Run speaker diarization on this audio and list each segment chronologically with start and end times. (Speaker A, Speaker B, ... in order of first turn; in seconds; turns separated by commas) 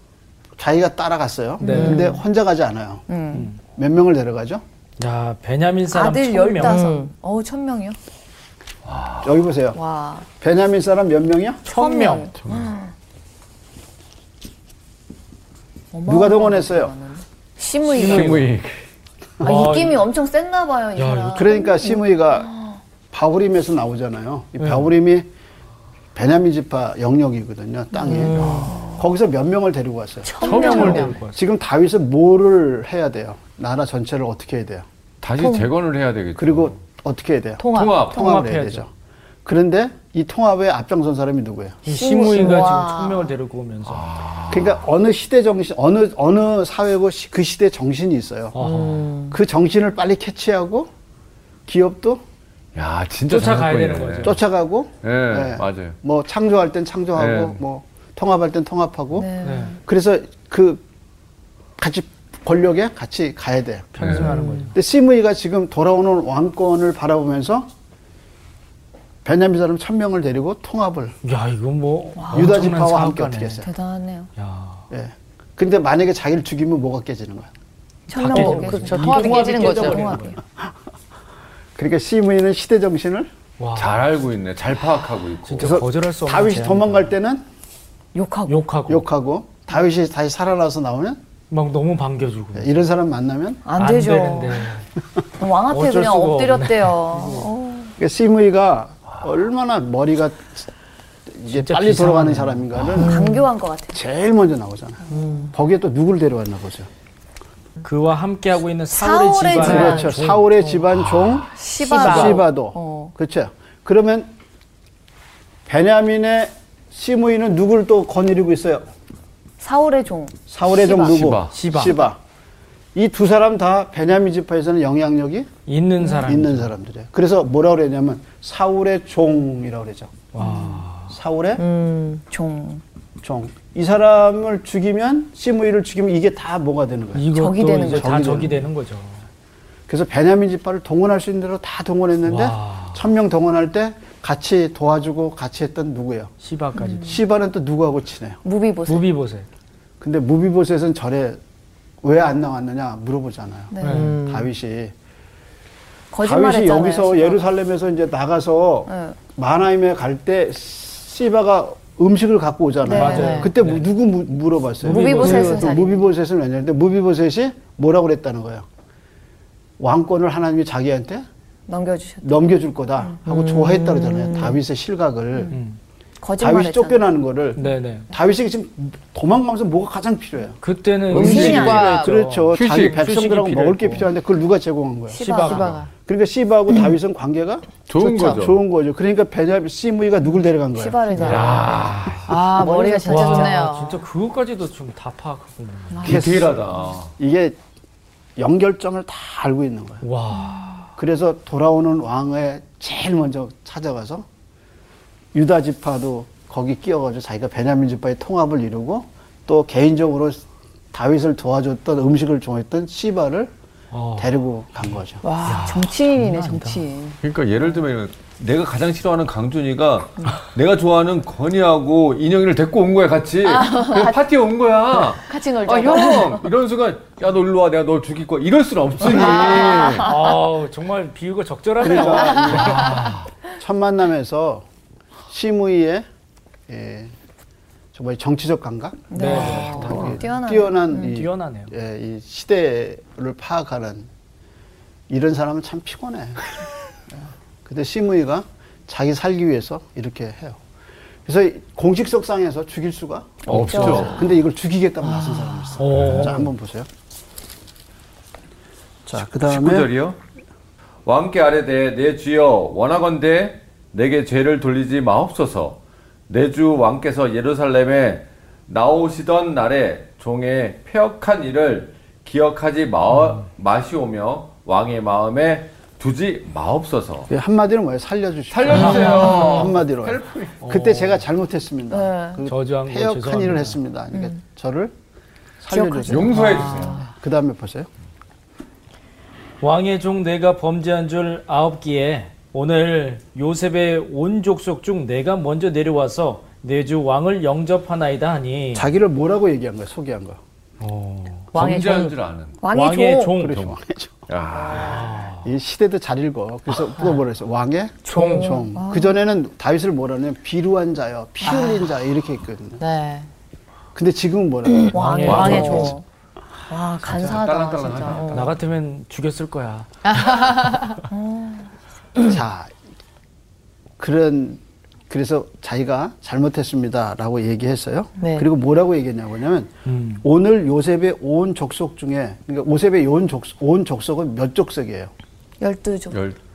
Speaker A: 0.6-3.0, Speaker B: 1.6-2.1, Speaker C: 1.6-2.2, Speaker D: 3.1-3.5, Speaker A: 3.6-4.6, Speaker B: 5.0-6.8, Speaker D: 5.9-8.0, Speaker C: 6.6-7.1, Speaker E: 8.8-9.3, Speaker A: 9.2-9.8, Speaker D: 9.7-10.3, Speaker A: 10.4-11.7, Speaker B: 11.7-12.3, Speaker D: 11.7-12.9, Speaker E: 12.4-12.7, Speaker D: 15.9-18.5, Speaker A: 16.1-16.9, Speaker E: 17.9-18.8, Speaker D: 19.4-22.8, Speaker B: 19.4-20.1, Speaker B: 20.9-21.5, Speaker A: 21.3-22.5, Speaker A: 23.1-25.3, Speaker B: 24.6-24.9, Speaker A: 26.1-34.9, Speaker C: 27.9-28.9, Speaker D: 28.1-28.9, Speaker C: 30.2-31.1, Speaker B: 30.4-31.4, Speaker D: 30.4-31.1, Speaker E: 35.2-36.8, Speaker C: 35.4-35.7, Speaker A: 36.4-38.9, Speaker C: 37.6-37.9, Speaker E: 37.7-38.2, Speaker B: 38.1-38.9, Speaker A: 39.4-41.8, Speaker B: 41.8-44.1, Speaker D: 41.9-43.3, Speaker C: 42.3-42.7, Speaker E: 43.9-44.8, Speaker A: 44.5-48.6, Speaker B: 48.5-49.1, Speaker C: 48.6-49.4, Speaker A: 49.3-50.9, Speaker A: 51.6-52.2, Speaker E: 52.7-54.4, Speaker B: 53.3-54.4, Speaker A: 54.2-60.8, Speaker E: 55.0-56.0, Speaker E: 57.2-57.6, Speaker D: 59.1-59.8, Speaker B: 59.4-59.8, Speaker A: 61.8-67.7, Speaker B: 64.0-64.8, Speaker E: 64.0-64.2, Speaker A: 69.2-71.2, Speaker B: 71.2-73.6, Speaker D: 72.2-72.6, Speaker A: 72.3-73.7, Speaker D: 73.6-74.3, Speaker B: 74.3-74.9, Speaker A: 74.9-77.5, Speaker D: 78.1-80.4, Speaker B: 78.1-80.4, Speaker C: 78.2-80.2, Speaker A: 79.0-80.7, Speaker A: 81.8-83.3, Speaker B: 83.6-84.0, Speaker E: 83.7-85.8, Speaker B: 85.4-87.1, Speaker A: 85.6-87.4, Speaker D: 88.1-88.6, Speaker B: 88.5-89.0, Speaker A: 88.9-91.2, Speaker B: 91.5-92.7, Speaker A: 92.5-93.6, Speaker D: 93.6-94.7, Speaker B: 93.8-94.9, Speaker D: 95.4-97.9, Speaker B: 95.7-97.5, Speaker A: 98.0-100.7, Speaker A: 101.3-103.2, Speaker B: 101.5-103.0, Speaker C: 102.9-103.5, Speaker D: 102.9-104.0, Speaker A: 103.9-106.9, Speaker C: 105.1-105.5, Speaker B: 107.8-110.8, Speaker D: 108.9-110.1, Speaker C: 109.5-110.1, Speaker A: 109.6-114.3, Speaker E: 111.1-111.4, Speaker D: 111.5-113.1, Speaker C: 111.8-112.4, Speaker B: 112.0-112.3, Speaker A: 115.7-118.9, Speaker D: 119.6-121.2, Speaker A: 120.5-122.2, Speaker E: 120.9-121.7, Speaker B: 121.5-122.0, Speaker D: 121.7-122.1, Speaker A: 122.9-125.5, Speaker B: 125.7-126.7, Speaker A: 126.2-130.2, Speaker B: 130.3-131.1, Speaker C: 130.4-130.7, Speaker A: 131.1-131.6, Speaker C: 131.6-132.2, Speaker D: 132.3-132.8, Speaker A: 133.2-138.6, Speaker B: 137.1-139.2, Speaker D: 137.3-138.5, Speaker A: 139.9-148.4, Speaker B: 142.2-143.0, Speaker B: 146.4-147.2, Speaker D: 146.8-147.2, Speaker D: 148.4-149.1, Speaker B: 148.9-149.5, Speaker A: 150.0-151.4, Speaker A: 152.0-154.9, Speaker D: 153.7-154.1, Speaker B: 153.8-154.2, Speaker C: 153.8-154.5, Speaker D: 156.1-157.5, Speaker A: 156.2-168.7, Speaker D: 158.9-159.2, Speaker D: 162.8-163.4, Speaker B: 162.9-163.9, Speaker C: 163.0-163.5, Speaker B: 164.8-165.8, Speaker D: 164.8-166.0, Speaker A: 169.8-171.3, Speaker D: 171.7-173.2, Speaker A: 172.2-175.6, Speaker C: 173.3-174.6, Speaker B: 175.5-175.8, Speaker D: 176.2-177.0, Speaker A: 176.4-191.7, Speaker B: 177.5-178.1, Speaker B: 180.6-184.1, Speaker C: 181.1-182.2, Speaker D: 181.1-182.0, Speaker E: 181.4-181.7, Speaker E: 182.5-183.1, Speaker B: 185.2-185.8, Speaker D: 185.2-185.8, Speaker C: 185.2-185.9, Speaker E: 187.9-188.6, Speaker C: 188.0-188.4, Speaker D: 190.7-193.6, Speaker B: 191.2-191.6, Speaker E: 191.2-192.3, Speaker C: 192.2-194.0, Speaker A: 192.5-193.0, Speaker B: 193.1-196.2, Speaker D: 195.9-196.3, Speaker E: 196.0-197.1, Speaker A: 196.0-196.6, Speaker A: 197.2-197.6, Speaker A: 198.4-200.0, Speaker B: 200.0-200.8, Speaker D: 200.4-200.6, Speaker A: 200.9-204.3, Speaker A: 205.3-213.5, Speaker B: 213.9-216.8, Speaker A: 214.2-215.2, Speaker C: 215.2-215.7, Speaker D: 215.5-217.2, Speaker E: 217.2-230.2, Speaker D: 223.4-224.2, Speaker D: 225.3-226.5, Speaker D: 229.0-230.4, Speaker A: 229.2-229.9, Speaker B: 229.9-233.2, Speaker A: 231.8-234.7, Speaker D: 231.9-232.7, Speaker E: 232.5-233.2, Speaker A: 235.3-236.1, Speaker A: 236.7-237.1, Speaker A: 237.9-244.1, Speaker D: 239.1-241.2, Speaker B: 239.1-240.2, Speaker B: 241.0-241.7, Speaker A: 245.1-246.4, Speaker A: 247.1-250.6, Speaker A: 251.2-256.9, Speaker E: 253.4-254.2, Speaker B: 253.5-254.1, Speaker D: 253.6-254.2, Speaker C: 255.0-255.8, Speaker B: 255.8-256.5, Speaker E: 256.0-256.3, Speaker A: 259.1-259.9, Speaker E: 259.2-260.2, Speaker E: 261.1-277.3, Speaker B: 273.1-273.4, Speaker A: 277.3-284.9, Speaker E: 278.5-280.6, Speaker B: 278.7-279.5, Speaker B: 280.6-281.2, Speaker D: 281.9-282.4, Speaker B: 282.4-283.8, Speaker A: 285.6-287.9, Speaker D: 285.7-286.8, Speaker E: 286.1-287.0, Speaker B: 286.4-287.0, Speaker B: 289.6-298.9, Speaker A: 298.7-300.4, Speaker B: 300.8-302.1, Speaker E: 301.5-302.6, Speaker C: 301.6-302.2, Speaker D: 302.6-303.3, Speaker B: 302.7-303.6, Speaker A: 302.8-304.2, Speaker E: 304.3-305.1, Speaker D: 304.7-305.0, Speaker B: 304.7-305.5, Speaker A: 305.4-312.8, Speaker B: 308.1-308.6, Speaker D: 308.1-309.2, Speaker D: 311.4-311.9, Speaker C: 312.8-313.3, Speaker A: 313.9-315.6, Speaker D: 314.9-316.0, Speaker B: 314.9-315.9, Speaker E: 315.2-315.9, Speaker C: 315.2-315.9, Speaker D: 316.7-318.5, Speaker E: 317.0-318.6, Speaker B: 318.3-320.5, Speaker C: 320.0-321.0, Speaker D: 321.1-321.7, Speaker A: 322.2-322.7, Speaker A: 324.0-335.1, Speaker C: 328.2-328.5, Speaker B: 329.9-330.2, Speaker D: 335.6-336.2, Speaker E: 336.1-336.4